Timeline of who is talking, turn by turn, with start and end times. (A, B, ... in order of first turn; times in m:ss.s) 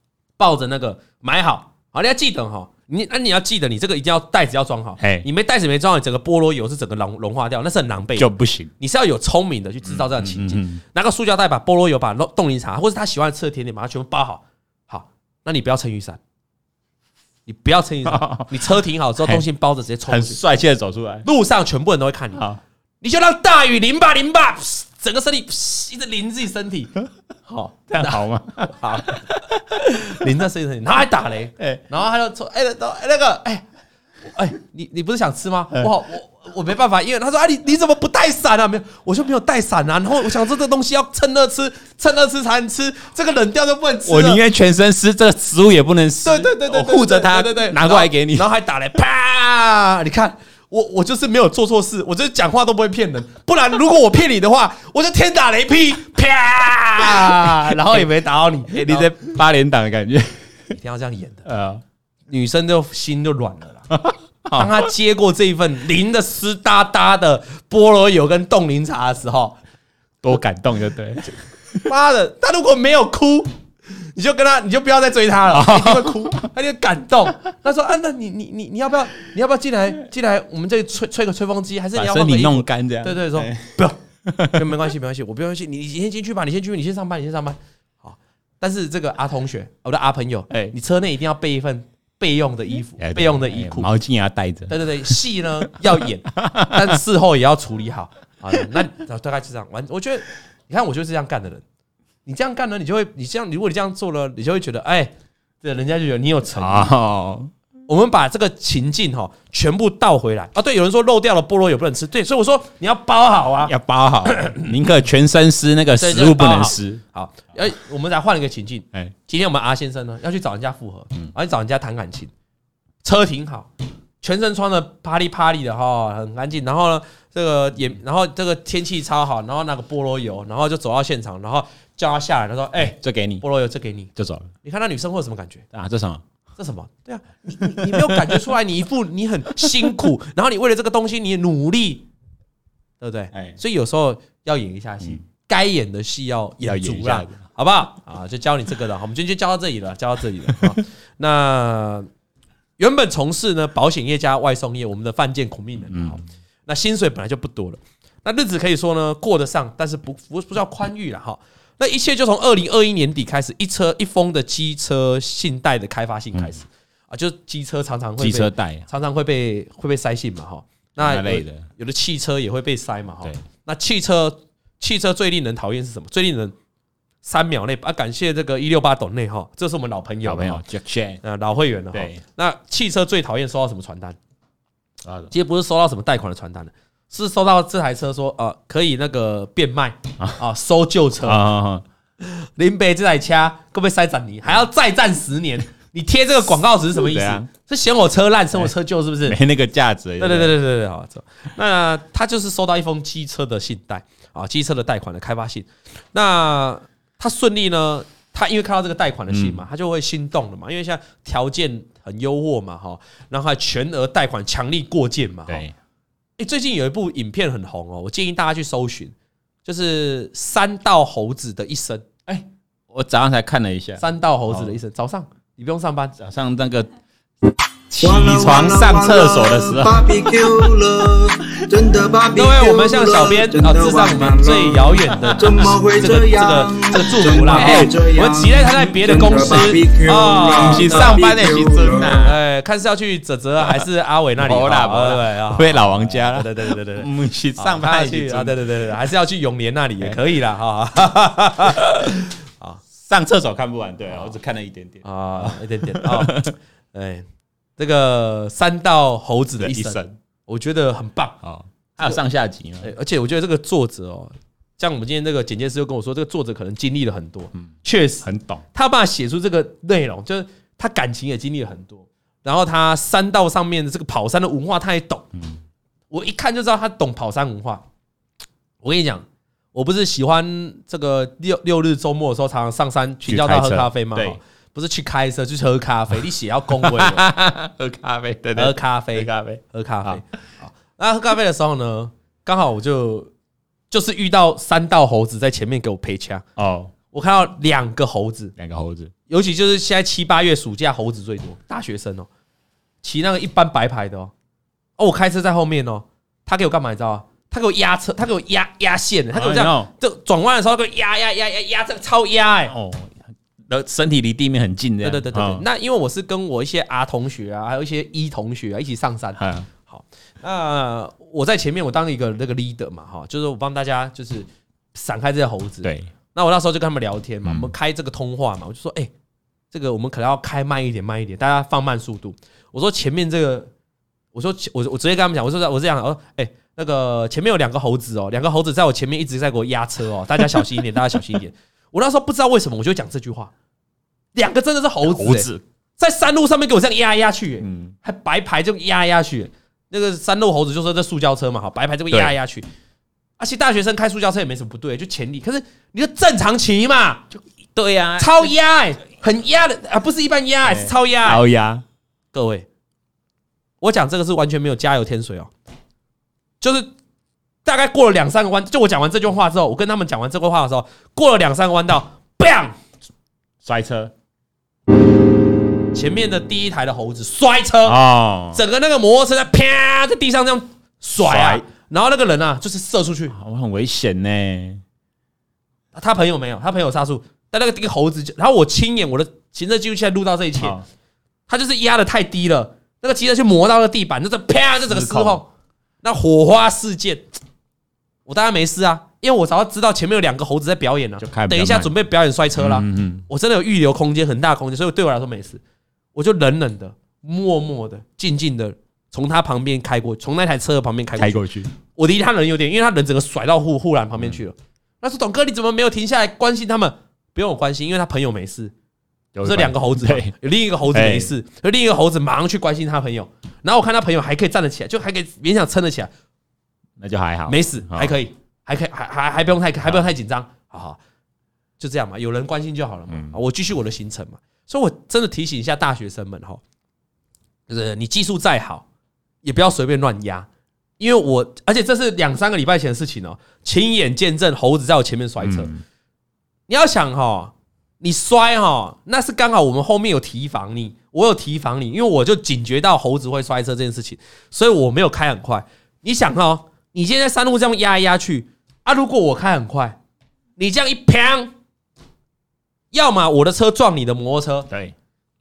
0:00.4-0:08.3 A
0:05.0-0:05.3 B
0:08.2-0:08.7 B
0:08.8-0:16.2 A
0:09.8-0:10.8 B
0:17.5-0:20.4 A
0:18.0-0:18.5 B
0:20.0-0:21.3 B
0:21.2-0:22.4 A
0:22.4-0:22.6 B
0:23.0-0:29.2 A
0:27.9-0:30.3 B
0:29.8-0:33.6 A
0:34.3-0:44.4 A
0:44.0-0:48.5 B
0:46.2-0:59.3 A
0:57.0-0:58.0 B
0:58.7-1:00.7 B
1:00.7-1:01.4 A
1:01.4-1:01.8 B
1:02.3-1:03.9 A
1:03.9-1:04.9 B
1:04.5-1:09.6 A
1:10.2-1:11.8 B
1:11.8-1:24.0 A
1:15.5-1:16.5 B
1:21.9-1:24.8 B
1:24.5-1:33.9 A
1:30.5-1:30.7 B
1:33.0-1:35.1 B
1:34.7-1:41.6 A
1:36.3-1:37.0 B
1:42.2-1:46.9 A
1:46.5-1:47.5 B
1:47.9-1:53.7 A
1:53.6-1:57.0 B
1:54.3-1:54.6 A
1:56.0-2:02.3 A
2:03.0-2:03.7 A
2:04.2-2:14.1 A
2:12.8-2:13.4 B
2:14.2-2:14.5 B
2:14.6-2:15.6 A
2:15.7-2:16.2 B
2:16.6-2:22.1 A
2:17.8-2:18.3 B
2:23.0-2:32.1 A
2:23.3-2:23.6 B
2:26.6-2:27.4 B
2:32.8-2:56.5 A
2:35.9-2:36.2 B
2:48.2-2:48.9 B
2:51.0-2:51.7 B
2:57.2-3:00.6 A
3:00.2-3:01.2 B
3:01.2-3:04.2 A
3:01.9-3:02.2 B
3:05.0-3:05.3 B
3:05.3-3:11.5 A
3:11.2-3:11.8 B
3:12.2-3:19.4 A
3:16.9-3:17.5 B
3:19.2-3:20.6 B
3:20.2-3:35.6 A
3:29.3-3:29.6 B
3:35.5-3:35.7 B
3:36.4-3:39.1 A
3:39.6-3:42.0 A
3:42.3-3:44.8 B
3:44.0-3:46.2 A
3:46.2-3:46.9 B
3:47.9-3:50.6 B
3:48.0-4:02.2 C
3:52.3-4:01.2 A
3:55.2-3:55.7 B
3:57.5-3:57.9 B
4:00.5-4:02.4 B
4:02.2-4:12.8 A
4:04.4-4:08.6 B
4:13.0-4:16.5 B
4:15.0-4:17.2 A
4:17.8-4:21.4 A
4:19.6-4:20.2 B
4:21.4-4:22.9 B
4:22.8-4:35.3 A
4:28.2-4:28.6 B
4:35.3-4:35.6 B
4:36.1-4:37.8 A
4:38.8-4:47.3 A
4:43.2-4:44.4 B
4:46.7-4:50.2 B
4:48.6-4:53.3 A
4:53.9-4:56.4 A
4:56.6-4:56.9 B
4:57.1-4:58.5 A
4:58.6-4:59.1 B
4:59.3-5:02.3 A
5:03.0-5:04.3 A
5:05.0-5:12.7 A
5:09.3-5:09.9 B
5:12.7-5:15.6 B
5:15.0-5:29.1 A
5:19.4-5:19.7 B
5:25.8-5:26.1 B
5:27.4-5:27.7 B
5:29.7-5:33.7 A
5:34.3-5:43.5 A
5:44.3-5:52.6 A
5:45.0-5:45.6 B
5:47.6-5:47.9 B
5:53.4-5:57.3 A
5:57.7-5:58.5 B
5:58.2-6:01.4 A
6:00.6-6:01.8 B
6:02.3-6:02.6 A
6:03.8-6:05.5 A
6:06.6-6:06.9 A
6:07.6-6:12.8 A
6:13.6-6:14.1 B
6:15.9-6:23.3 A
6:17.8-6:18.6 B
6:21.2-6:21.6 B
6:23.3-6:24.8 B
6:25.9-6:30.8 A
6:30.6-6:30.8 B
6:31.5-6:35.5 A
6:34.9-6:35.4 B
6:36.0-6:37.3 A
6:38.2-6:45.6 A
6:41.2-6:41.9 B
6:42.6-6:43.2 B
6:46.1-6:58.7 A
6:51.2-6:51.7 B
6:59.3-7:00.3 B
6:59.4-7:06.1 A
7:00.9-7:01.3 B
7:07.0-7:08.2 B
7:07.5-7:11.0 A
7:11.8-7:16.6 A
7:13.1-7:13.4 B
7:17.7-7:18.8 A
7:19.4-7:20.5 A
7:21.0-7:25.7 A
7:25.4-7:25.8 B
7:26.7-7:40.0 A
7:40.6-7:41.5 A
7:42.9-7:44.7 A
7:44.7-7:44.9 B